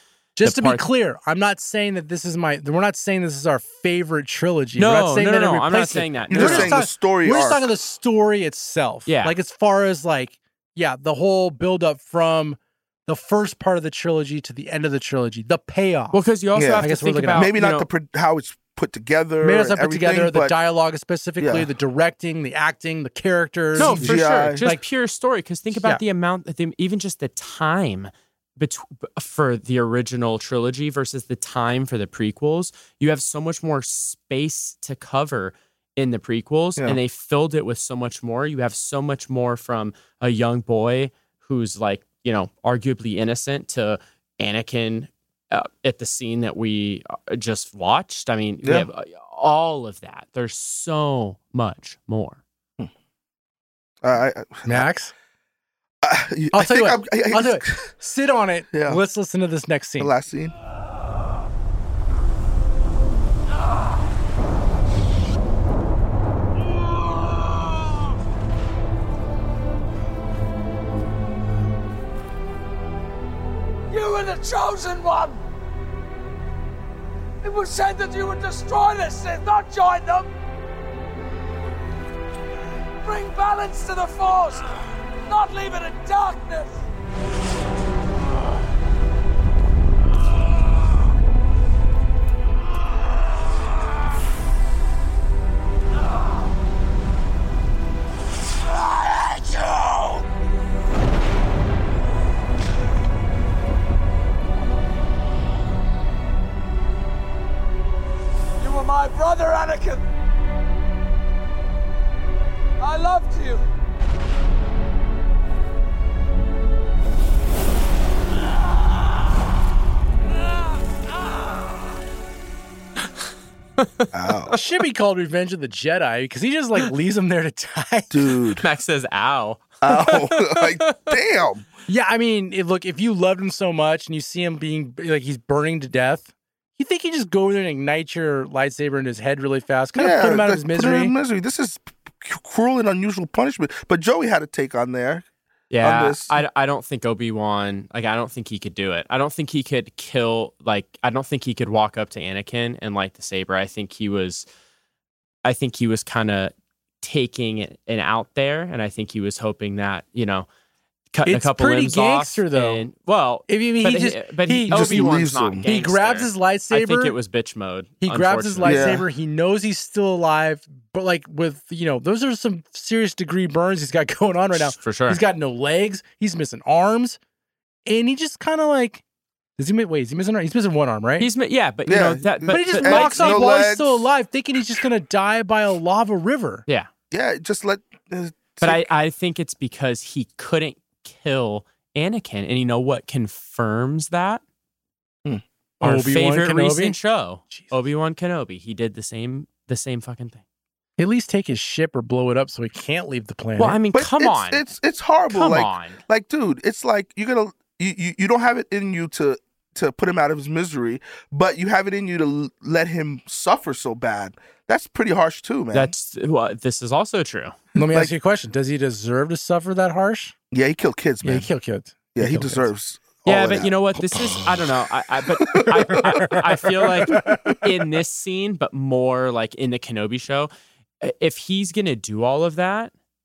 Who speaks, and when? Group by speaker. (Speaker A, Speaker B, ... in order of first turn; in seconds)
Speaker A: 0.4-16.2, 16.8-17.5, 19.4-24.8, 25.8-26.0, 54.7-55.1, 56.5-60.1, 124.5-128.2, 131.9-141.1, 161.2-162.9, 163.5-167.1, 168.0-177.2, 177.9-179.0, 179.6-181.3, 182.5-186.6, 195.8-196.9, 201.0-203.8, 217.8-220.3, 221.2-222.7, 225.7-227.2
Speaker B: 0.4-0.8, 4.8-6.8, 9.1-9.3, 16.1-17.9, 23.8-52.4, 123.8-124.6, 128.6-131.1, 145.7-154.4, 155.4-160.5, 161.1-168.9, 174.5-175.2, 181.2-183.5, 188.6-194.4, 195.8-200.4, 203.6-204.7, 205.3-206.0, 215.7-217.5, 223.2-230.5, 231.0-232.9
Speaker C: 6.3-7.7, 16.6-20.5, 21.4-21.7, 23.8-24.6, 48.6-48.9, 54.0-54.9, 56.0-57.9, 58.7-59.0, 60.0-60.5, 124.1-124.5, 128.1-128.7, 129.8-131.7, 139.9-145.2, 145.8-146.4, 164.7-165.6, 168.6-169.0, 181.9-184.1, 187.1-188.9, 203.9-215.9, 220.5-221.5, 222.1-226.0, 226.8-227.6
Speaker D: 73.9-75.4, 77.4-80.3, 83.0-84.7, 85.3-86.8, 108.6-110.0, 112.8-113.6